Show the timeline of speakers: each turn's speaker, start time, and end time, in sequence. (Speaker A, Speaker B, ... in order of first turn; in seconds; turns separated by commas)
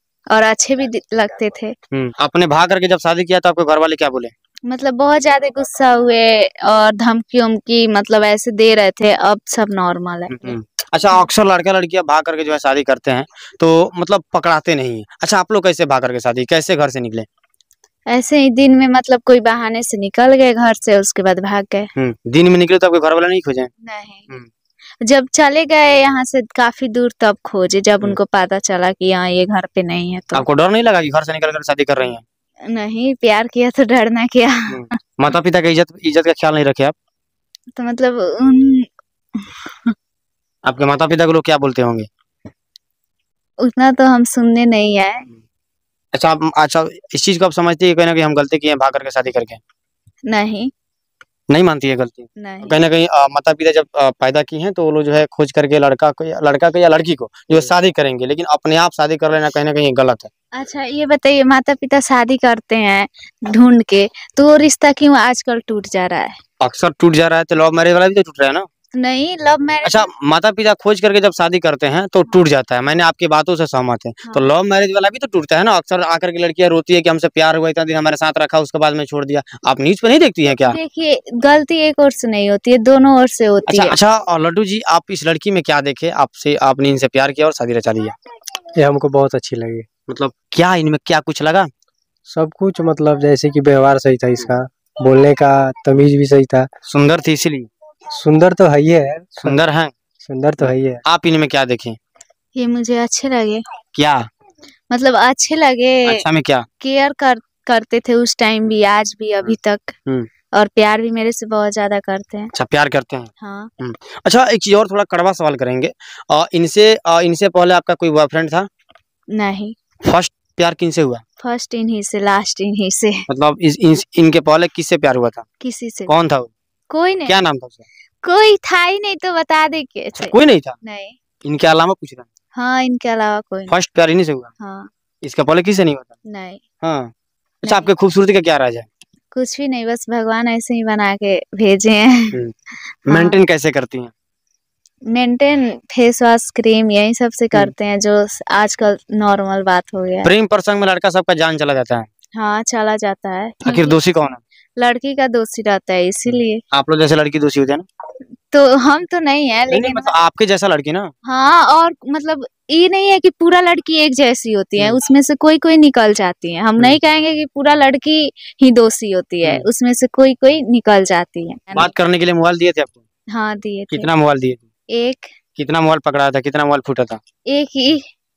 Speaker A: 0.3-1.7, Speaker B: 1.9-4.3, Speaker A: 4.7-10.5, Speaker B: 10.3-17.3, Speaker A: 18.1-21.9, Speaker B: 21.9-23.7, Speaker A: 23.8-24.3, Speaker A: 25.0-30.4, Speaker B: 30.3-32.2, Speaker A: 32.7-34.9, Speaker B: 34.7-36.9, Speaker A: 37.8-39.9, Speaker B: 40.6-42.1, Speaker A: 43.6-45.3, Speaker B: 46.1-49.6, Speaker A: 50.3-50.7, Speaker B: 51.5-60.3, Speaker A: 52.4-52.8, Speaker A: 60.5-66.4, Speaker B: 66.6-68.7, Speaker A: 68.9-70.1, Speaker B: 69.8-80.8, Speaker A: 80.5-83.9, Speaker B: 83.7-88.1, Speaker C: 88.8-89.8, Speaker B: 90.1-91.7, Speaker C: 92.3-96.7, Speaker B: 96.9-97.7, Speaker C: 98.1-99.6, Speaker B: 99.4-99.9, Speaker C: 100.2-101.0, Speaker B: 100.6-102.0, Speaker A: 102.5-103.6, Speaker B: 103.9-104.2, Speaker A: 104.9-106.2, Speaker B: 106.0-106.7, Speaker A: 106.8-110.0, Speaker A: 110.5-112.5, Speaker B: 112.5-118.7, Speaker A: 113.4-113.7, Speaker A: 119.3-119.8, Speaker B: 120.0-121.2, Speaker A: 121.4-123.2, Speaker B: 123.3-125.4, Speaker A: 125.6-126.1, Speaker B: 126.1-126.5, Speaker A: 126.9-127.4, Speaker B: 127.3-127.8, Speaker A: 128.2-131.2, Speaker B: 130.2-130.8, Speaker B: 131.4-132.3, Speaker A: 132.5-133.7, Speaker B: 133.7-134.5, Speaker A: 134.6-134.9, Speaker B: 135.2-136.1, Speaker A: 136.3-136.6, Speaker B: 136.8-137.1, Speaker B: 137.6-138.9, Speaker A: 137.6-137.9, Speaker A: 139.3-142.4, Speaker B: 143.1-144.1, Speaker A: 143.1-143.4, Speaker A: 145.1-150.3, Speaker B: 150.2-152.1, Speaker A: 152.3-154.0, Speaker B: 153.6-154.4, Speaker A: 154.8-156.6, Speaker B: 156.3-157.8, Speaker A: 158.5-160.1, Speaker B: 159.7-161.1, Speaker A: 161.2-171.9, Speaker B: 169.4-169.7, Speaker B: 171.8-173.0, Speaker A: 173.3-174.1, Speaker B: 173.9-174.6, Speaker A: 174.9-175.3, Speaker B: 175.6-177.2, Speaker A: 177.5-178.0